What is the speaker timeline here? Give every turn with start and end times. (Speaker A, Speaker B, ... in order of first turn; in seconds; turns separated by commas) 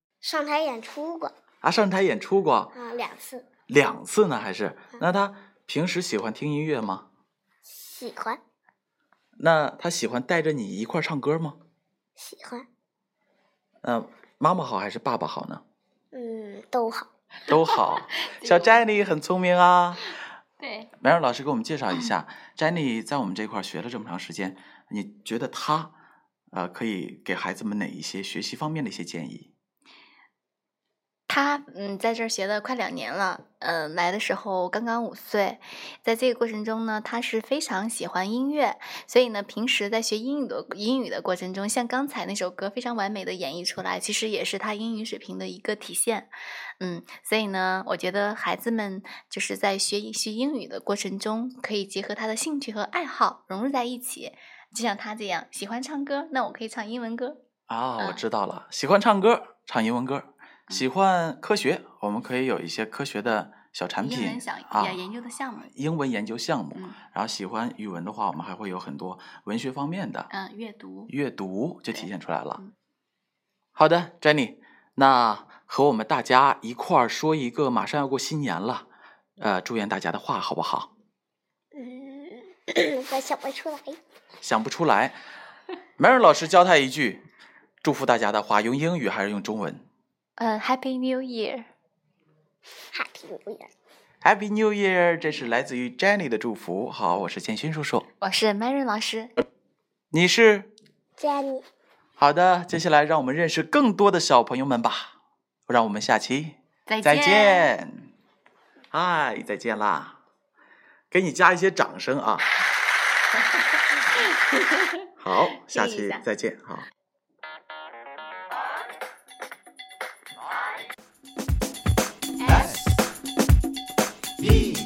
Speaker A: 0.2-1.3, Speaker B: 1.6-2.7, Speaker A: 2.7-3.5, Speaker B: 3.7-7.1, Speaker A: 7.7-8.4, Speaker B: 9.4-11.6, Speaker A: 12.2-12.7, Speaker B: 13.8-15.6, Speaker A: 16.1-17.1, Speaker B: 17.5-20.1, Speaker C: 17.5-18.9, Speaker C: 20.6-20.9, Speaker B: 21.0-25.9, Speaker B: 26.5-29.5, Speaker C: 31.3-57.4, Speaker B: 57.7-65.0, Speaker C: 64.0-65.7, Speaker B: 65.8-70.3, Speaker C: 70.3-71.1, Speaker B: 71.1-72.6, Speaker B: 73.8-78.9, Speaker B: 79.4-80.9, Speaker A: 81.7-84.0, Speaker B: 84.4-85.2, Speaker B: 86.0-87.2, Speaker B: 87.8-89.8, Speaker C: 90.4-91.7, Speaker A: 92.9-93.7, Speaker B: 94.2-98.0, Speaker C: 98.2-99.3, Speaker B: 100.1-100.7, Speaker A: 101.2-101.7, Speaker B: 102.2-105.1, Speaker B: 105.7-108.1, Speaker C: 106.9-107.7, Speaker B: 108.9-110.2, Speaker B: 111.1-112.5, Speaker C: 114.5-114.9, Speaker B: 115.2-116.9, Speaker C: 115.5-116.2, Speaker C: 122.5-122.7